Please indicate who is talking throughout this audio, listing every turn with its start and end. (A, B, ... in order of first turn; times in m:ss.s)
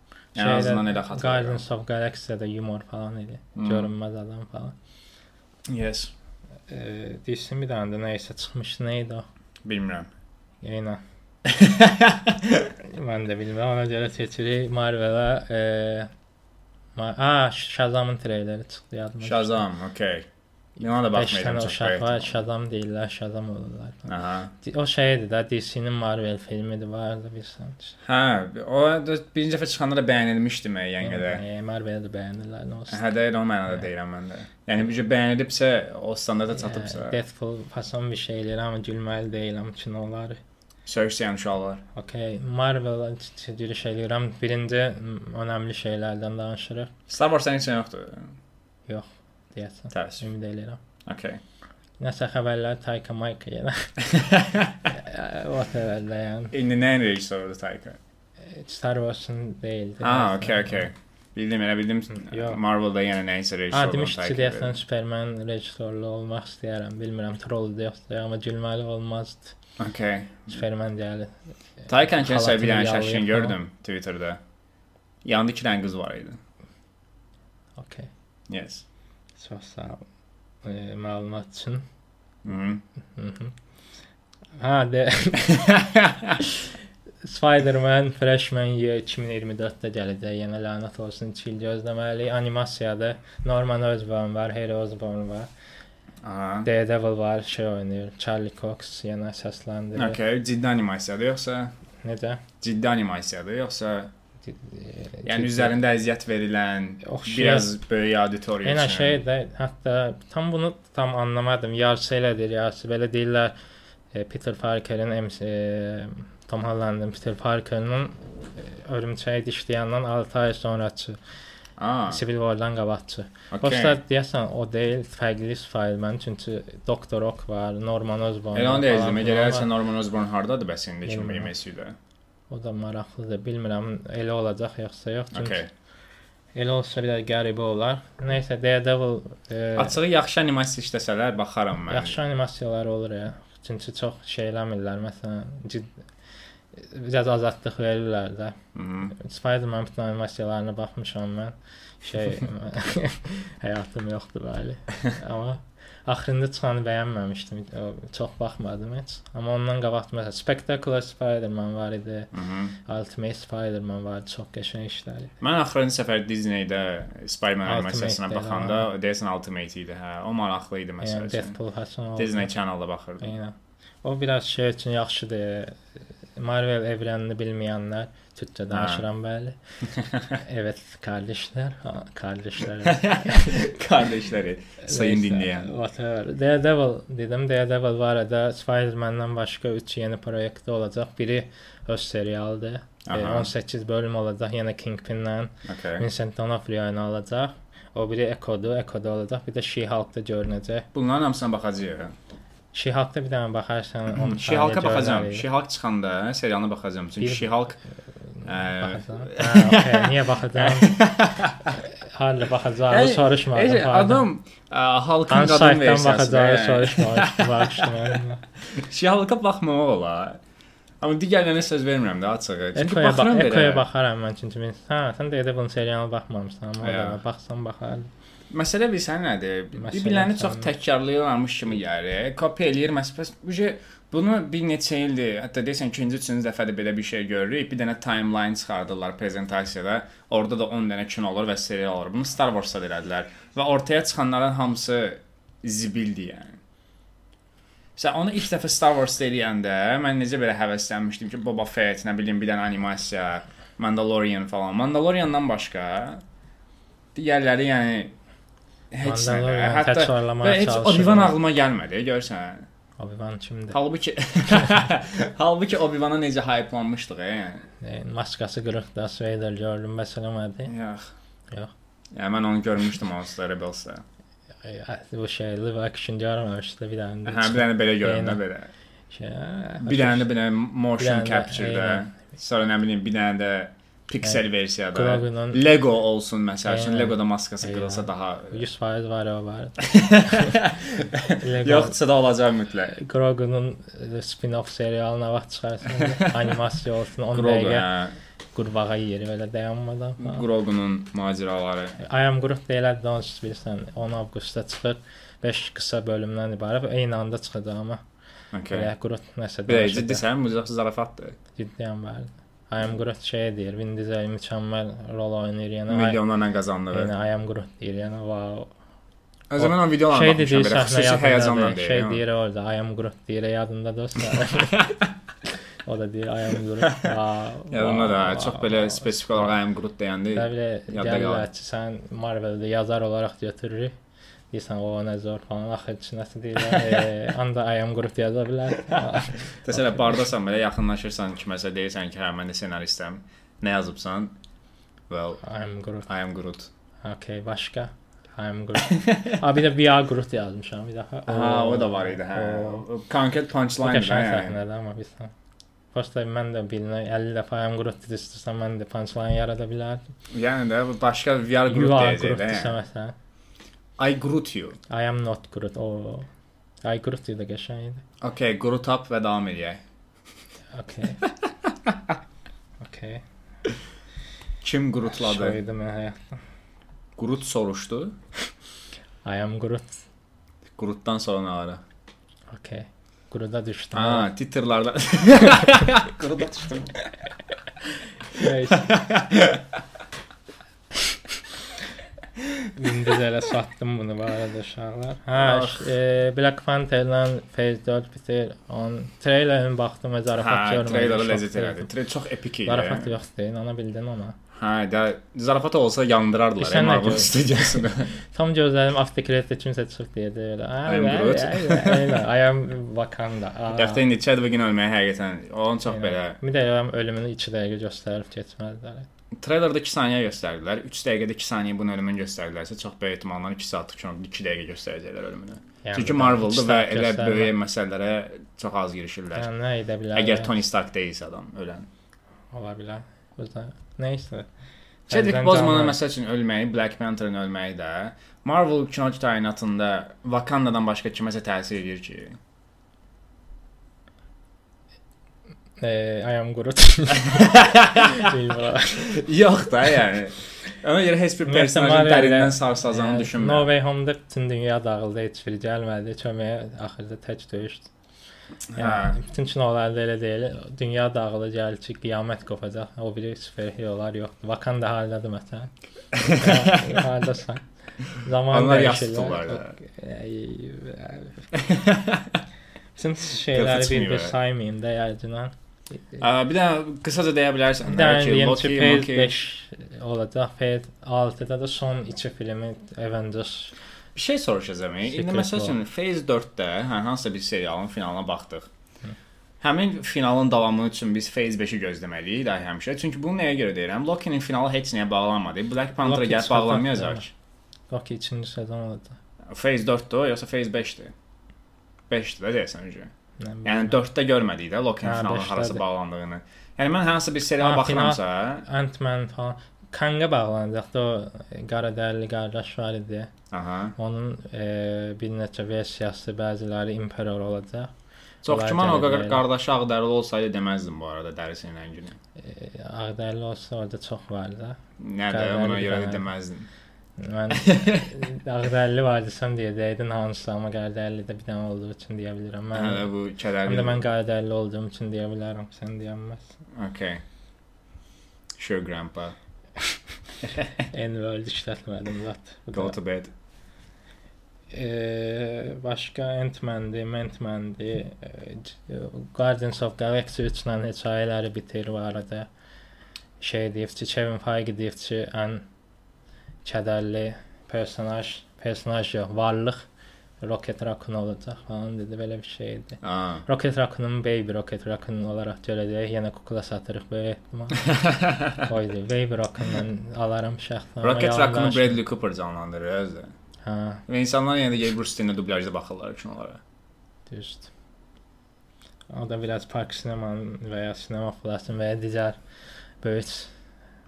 0:00.4-0:01.6 A
0:00.4-0:04.8 B
0:03.6-0:03.9 A
0:05.7-0:06.1 A
0:06.7-0:09.3 B
0:09.6-0:10.1 A
0:10.6-0:11.0 B
0:11.4-0:12.7 A
0:12.8-0:16.1 B
0:17.0-0:19.6 B
0:19.2-0:20.3 A
0:20.8-0:22.3 A
0:21.1-0:28.0 B
0:24.1-0:24.5 A
0:28.0-0:31.4 A
0:31.0-0:33.1 B
0:32.9-0:37.2 A
0:36.5-0:40.4 B
0:40.9-0:41.8 A
0:42.0-0:46.9 B
0:47.1-0:48.3 A
0:48.9-0:50.8 B
0:49.9-0:50.2 A
0:51.0-0:51.4 A
0:52.0-0:53.9 B
0:54.0-0:54.8 A
0:54.9-0:56.5 B
0:56.5-0:58.0 A
0:58.4-1:00.8 B
1:00.0-1:04.8 A
1:02.1-1:02.6 B
1:03.7-1:09.6 B
1:09.8-1:10.6 A
1:10.5-1:11.3 B
1:11.9-1:13.6 B
1:11.9-1:14.4 A
1:15.2-1:16.4 A
1:17.8-1:18.1 B
1:18.5-1:18.8 A
1:19.4-1:20.0 B
1:20.6-1:21.8 B
1:22.4-1:22.8 A
1:23.2-1:23.6 B
1:24.6-1:25.8 B
1:25.5-1:26.4 A
1:26.4-1:26.7 B
1:27.2-1:35.5 B
1:36.2-1:36.7 A
1:36.6-1:40.2 B
1:40.0-1:41.7 A
1:42.0-1:42.4 B
1:42.6-1:44.1 A
1:44.5-1:45.8 B
1:45.2-1:49.2 A
1:47.0-1:47.7 B
1:48.6-1:53.6 B
1:54.1-2:01.2 B
2:01.8-2:02.2 A
2:02.1-2:09.7 B
2:03.5-2:04.0 A
2:08.5-2:12.0 A
2:11.1-2:11.5 B
2:12.5-2:15.6 B
2:15.3-2:15.7 A
2:16.6-2:20.0 B
2:19.8-2:22.2 A
2:21.9-2:25.9 B
2:26.8-2:28.6 B
2:28.8-2:29.1 A
2:29.1-2:42.3 B
2:42.3-2:42.8 A
2:42.9-2:45.3 B
2:45.4-2:51.6 A
2:47.6-2:48.9 B
2:51.0-2:52.5 B
2:52.2-2:53.3 A
2:53.2-2:55.8 B
2:56.4-2:59.6 B
2:58.7-2:59.0 A
3:00.0-3:00.3 A
3:00.4-3:03.6 B
3:02.8-3:05.7 A
3:04.8-3:20.9 B
3:13.1-3:13.5 A
3:15.7-3:16.1 A
3:20.9-3:22.1 A
3:22.7-3:25.4 B
3:24.1-3:27.8 A
3:27.2-3:27.5 B
3:28.4-3:31.0 B
3:28.4-3:31.7 A
3:31.7-3:34.3 B
3:32.9-3:40.4 A
3:35.3-3:38.4 B
3:41.0-3:43.8 A
3:42.8-3:48.1 B
3:46.8-3:47.2 A
3:48.5-4:06.6 A
3:49.8-3:50.7 B
4:08.0-4:16.2 A
4:17.2-4:18.1 A
4:18.9-4:22.7 A
4:19.0-4:21.4 B
4:23.0-4:23.8 B
4:23.7-4:27.7 A
4:27.8-4:30.7 B
4:30.7-4:31.1 A
4:32.1-4:34.0 A
4:34.6-4:38.4 B
4:37.3-4:38.7 A
4:39.1-4:40.3 B
4:39.8-4:48.6 A
4:41.0-4:42.2 B
4:44.2-4:45.6 B
4:46.7-4:50.6 B
4:49.8-4:52.9 A
4:51.4-4:52.0 B
4:52.9-4:57.9 B
4:56.0-4:56.3 A
4:57.3-4:58.2 A
4:58.6-5:00.4 B
5:00.2-5:02.0 A
5:02.0-5:08.0 B
5:08.5-5:08.9 A
5:08.7-5:10.2 B
5:09.7-5:11.4 A
5:11.6-5:16.2 B
5:15.9-5:17.1 A
5:16.9-5:18.7 B
5:19.5-5:22.2 A
5:19.6-5:25.0 B
5:24.7-5:25.0 A
5:25.8-5:29.6 B
5:26.8-5:27.2 A
5:27.7-5:31.4 A
5:30.3-5:34.0 B
5:34.5-5:40.2 B
5:36.6-5:37.0 A
5:39.6-5:44.3 A
5:45.1-5:45.4 A
5:45.4-5:46.1 B
5:46.1-5:46.7 A
5:47.0-5:52.8 B
5:48.9-5:49.4 A
5:51.3-5:54.6 A
5:53.8-5:55.3 B
5:55.9-6:00.0 B
6:00.3-6:02.8 A
6:01.7-6:03.2 B
6:04.0-6:04.8 A
6:04.9-6:06.3 B
6:06.8-6:08.0 B
6:08.2-6:09.8 A
6:10.7-6:11.3 B
6:12.8-6:13.2 B
6:14.6-6:15.6 A
6:15.1-6:16.4 B
6:17.2-6:18.2 A
6:19.2-6:20.0 B
6:20.8-6:21.8 A
6:22.5-6:24.3 B
6:23.9-6:27.0 A
6:28.3-6:28.9 B
6:28.4-6:29.8 A
6:32.7-6:41.9 B
6:35.4-6:35.9 A
6:40.3-6:43.1 A
6:42.6-6:44.4 B
6:44.5-6:48.1 A
6:46.6-6:54.1 B
6:50.9-6:52.2 A
6:53.7-6:56.4 A
6:55.9-6:59.1 B
6:59.4-7:09.5 A
7:05.8-7:07.5 B
7:09.4-7:10.5 B
7:10.1-7:11.9 A
7:12.5-7:14.5 B
7:15.1-7:16.0 B
7:15.1-7:22.4 A
7:25.8-7:29.2 B
7:27.3-7:28.4 A
7:28.9-7:33.7 A
7:31.5-7:37.9 B
7:38.7-7:39.2 A
7:38.8-7:51.5 B
7:46.2-7:47.0 A
7:48.5-7:49.8 A
7:51.5-7:52.4 A
7:53.0-7:55.5 B
7:53.5-7:54.4 A
7:56.2-7:59.4 A
7:57.8-8:03.8 B
8:04.2-8:08.7 A
8:05.1-8:05.8 B
8:09.6-8:17.3 A
8:16.0-8:17.3 B
8:17.9-8:19.2 B
8:19.5-8:21.1 A
8:22.1-8:23.1 A
8:23.4-8:24.0 B
8:23.6-8:28.6 A
8:25.0-8:25.8 B
8:27.6-8:33.3 B
8:33.5-8:34.0 A
8:34.0-8:37.9 B
8:38.4-8:42.2 A
8:38.5-8:39.4 B
8:42.4-8:44.8 B
8:45.0-8:46.7 A
8:45.3-8:46.3 B
8:47.2-8:53.1 B
8:47.5-8:48.1 A
8:52.7-8:54.0 A
8:53.6-8:56.6 B
8:56.8-8:57.2 A
8:58.6-8:59.4 A
9:00.6-9:03.0 B
9:02.7-9:03.3 A
9:04.7-9:12.5 B
9:13.4-9:15.7 B
9:16.6-9:19.9 B
9:20.4-9:27.9 B
9:23.0-9:23.4 A
9:27.8-9:28.7 A
9:28.6-9:32.0 B
9:31.0-9:33.3 A
9:33.6-9:34.0 B
9:34.1-9:36.6 A
9:37.3-9:37.7 B
9:39.1-9:42.4 B
9:43.0-9:43.5 B